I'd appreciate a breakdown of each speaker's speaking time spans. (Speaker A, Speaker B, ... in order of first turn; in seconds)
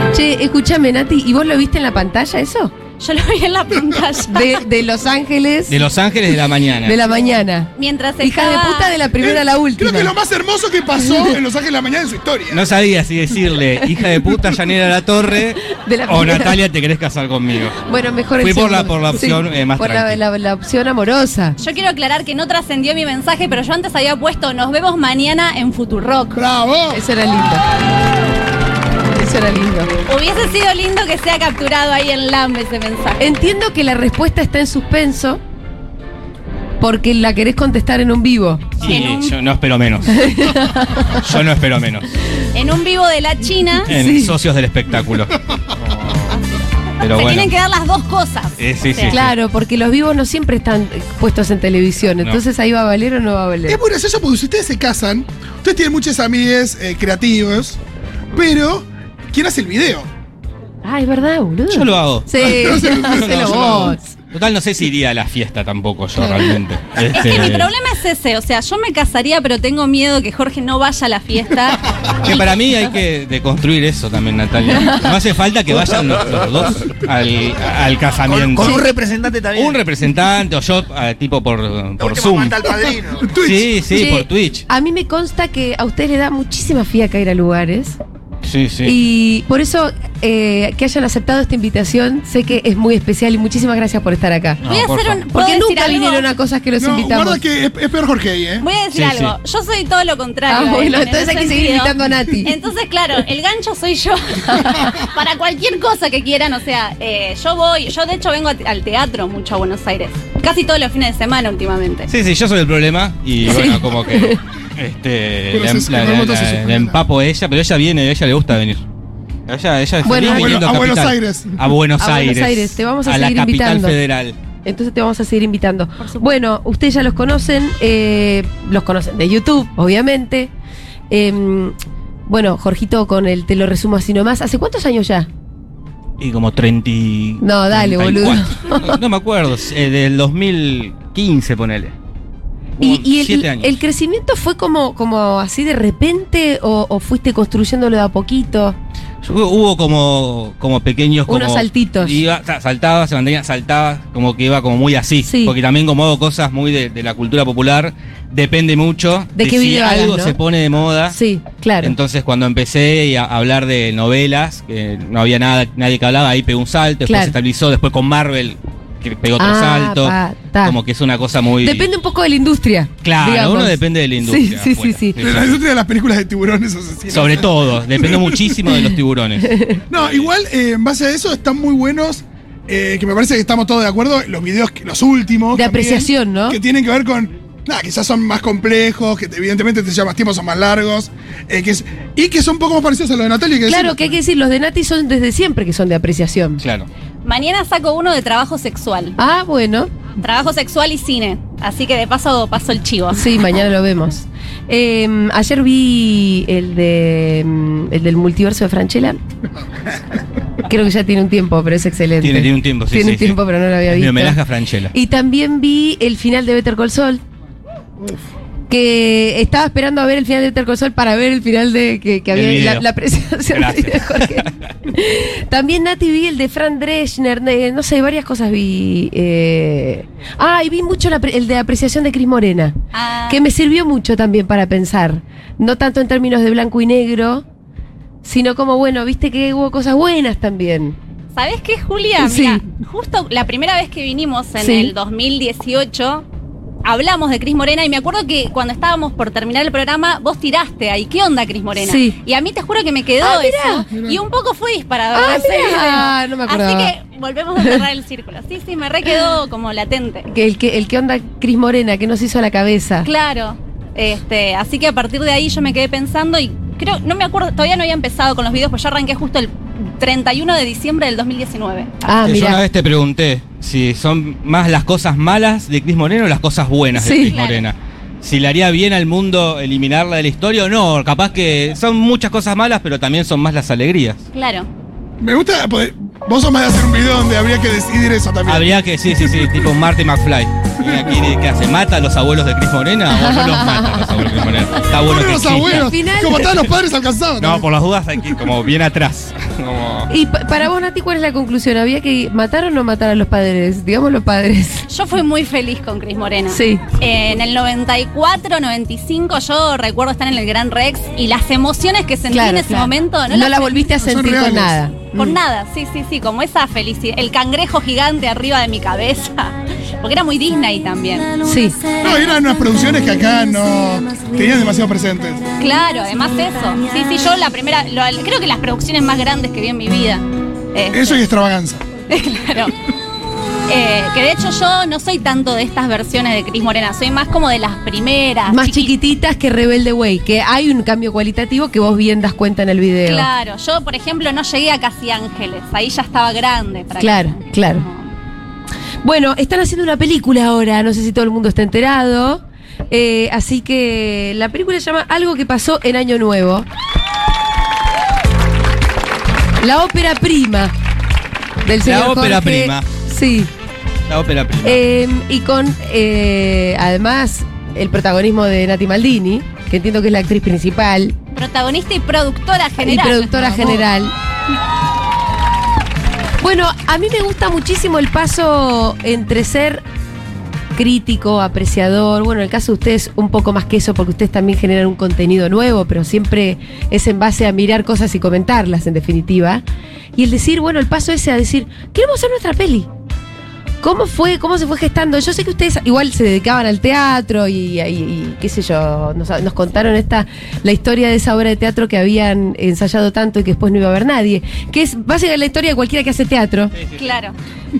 Speaker A: 0.1-2.7, 4.3-5.8, 6.8-10.1, 10.9-11.4, 15.7-16.6, 17.9-21.6, 26.9-27.6, 29.1-29.9, 33.2-35.4, 36.8-38.8, 40.1-41.2, 43.9-44.3, 49.1-53.8, 60.8-64.1, 66.2-66.6, 83.9-88.0, 88.8-94.6, 95.3-97.4, 100.5-102.5, 104.6-104.9, 113.4-114.4, 120.0-120.6, 122.0-124.0, 124.6-130.5, 131.1-131.7, 132.3-135.3, 137.4-138.9, 142.8-148.8, 151.3-152.2, 155.2-155.5, 159.3-160.4, 161.1-161.9, 167.1-167.3, 169.4-170.8, 171.6-175.2, 179.4-179.8, 185.5-186.6, 193.6-196.6, 199.2-199.9, 203.1-209.2, 210.7-214.4, 214.9-217.2, 218.7-232.7, 233.3-237.4, 238.2-241.0, 242.2-242.6, 244.6-244.9, 251.8-252.1, 253.2-253.9, 255.1-256.9, 260.3-263.1, 272.0-272.6, 276.9-277.3, 293.1-294.3, 295.6-296.6, 300.1-304.9, 306.5-306.8, 312.3-315.4, 321.4-321.8, 338.5-343.3, 347.0-347.8, 349.0-356.7, 359.6-360.7, 361.6-363.5, 364.6-371.1, 372.8-374.1, 376.4-379.8, 380.8-389.6, 390.1-392.9, 393.8-406.7
Speaker B: 3.0-4.6, 7.8-8.9, 21.6-26.4, 30.1-33.2, 38.8-39.4, 42.5-43.9, 47.1-49.2, 67.1-71.8, 94.6-96.2, 98.6-112.1, 126.0-126.3, 197.2-199.2, 200.2-203.2, 232.9-233.4, 241.3-246.2, 246.8-260.3, 263.0-271.9, 277.2-277.7, 284.3-284.7, 304.9-313.9, 315.1-321.3, 325.6-331.2, 332.1-332.7, 333.7-338.9, 343.0-348.1, 371.3-373.8, 406.9-407.3
Speaker C: 5.7-7.1, 12.5-17.8, 18.4-20.2, 38.8-40.4, 41.1-42.1, 43.9-46.4, 47.0-47.5, 48.6-49.4, 61.7-67.7, 72.2-78.9, 79.5-82.8, 83.4-84.7, 88.4-89.0, 94.6-95.2, 98.9-99.3, 112.1-118.8, 119.5-124.4, 136.2-141.9, 142.8-143.7, 149.2-161.2, 161.8-171.9, 173.0-175.6, 177.1-180.3, 196.6-196.9, 212.2-214.9, 222.3-222.9, 223.5-224.6, 272.2-284.2, 288.4-295.9, 297.4-300.1, 361.8-362.9, 364.1-364.8, 406.8-407.0
Speaker D: 9.2-12.7, 26.3-27.0, 53.7-57.8, 58.3-60.1, 62.4-63.9, 83.2-83.7, 96.8-98.7, 115.5-117.0, 120.2-121.5, 175.2-178.5, 179.9-193.9, 253.9-254.2, 285.2-289.6, 290.8-291.1, 294.9-297.6, 314.0-314.8, 322.0-325.4, 330.9-331.8
Speaker E: 78.2-79.8, 82.0-83.2